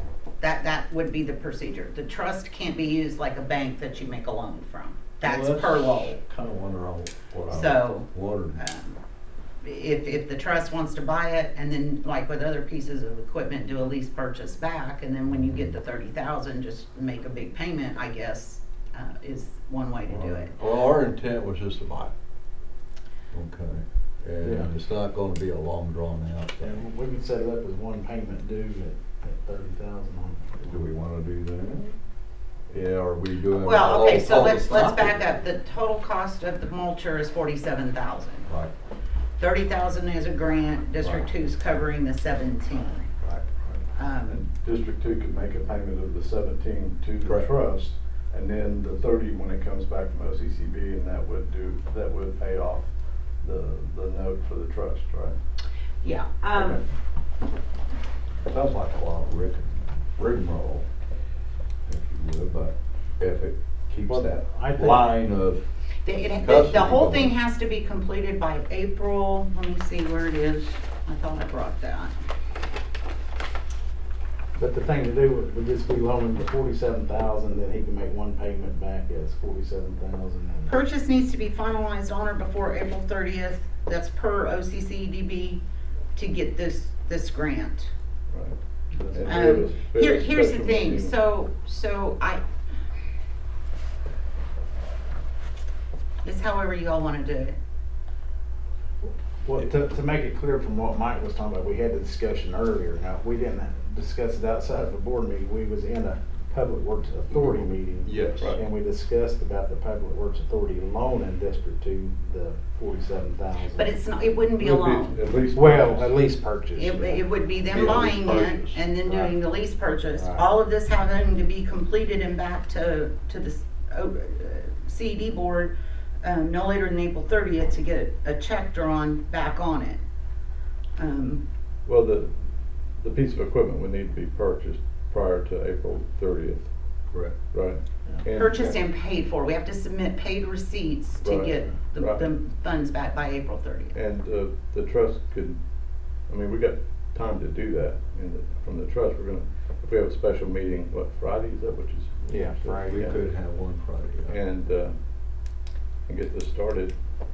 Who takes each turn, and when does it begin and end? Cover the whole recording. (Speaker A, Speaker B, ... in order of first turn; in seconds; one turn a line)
Speaker A: 0.4-6.2
Speaker B: 5.2-8.6
Speaker A: 7.5-9.0
Speaker A: 9.6-20.6
Speaker B: 15.3-15.7
Speaker B: 20.1-22.1
Speaker B: 23.3-26.8
Speaker C: 24.4-24.7
Speaker C: 26.6-30.8
Speaker B: 30.7-31.9
Speaker B: 32.7-35.4
Speaker A: 33.5-38.5
Speaker A: 39.4-43.1
Speaker B: 41.0-41.3
Speaker B: 43.2-43.6
Speaker A: 43.9-44.4
Speaker D: 44.3-55.4
Speaker B: 47.2-47.5
Speaker A: 56.0-56.8
Speaker D: 56.5-56.8
Speaker B: 58.5-60.9
Speaker B: 61.9-65.6
Speaker C: 64.0-65.2
Speaker A: 66.0-72.2
Speaker B: 66.4-67.3
Speaker C: 74.6-80.8
Speaker A: 80.7-85.6
Speaker A: 86.2-87.9
Speaker D: 88.3-88.6
Speaker C: 88.9-89.7
Speaker D: 89.1-91.2
Speaker A: 89.2-92.4
Speaker A: 96.2-97.6
Speaker C: 99.0-113.9
Speaker B: 107.3-108.5
Speaker D: 108.4-108.6
Speaker A: 113.7-115.2
Speaker D: 114.6-116.1
Speaker C: 115.5-117.2
Speaker A: 116.8-130.0
Speaker B: 117.7-118.8
Speaker C: 120.1-120.5
Speaker A: 131.0-131.4
Speaker D: 131.9-136.7
Speaker D: 137.5-138.8
Speaker A: 138.3-143.9
Speaker D: 141.2-142.3
Speaker D: 143.9-145.6
Speaker D: 146.2-153.2
Speaker C: 152.3-153.0
Speaker B: 152.9-154.4
Speaker D: 154.3-154.9
Speaker D: 156.1-156.9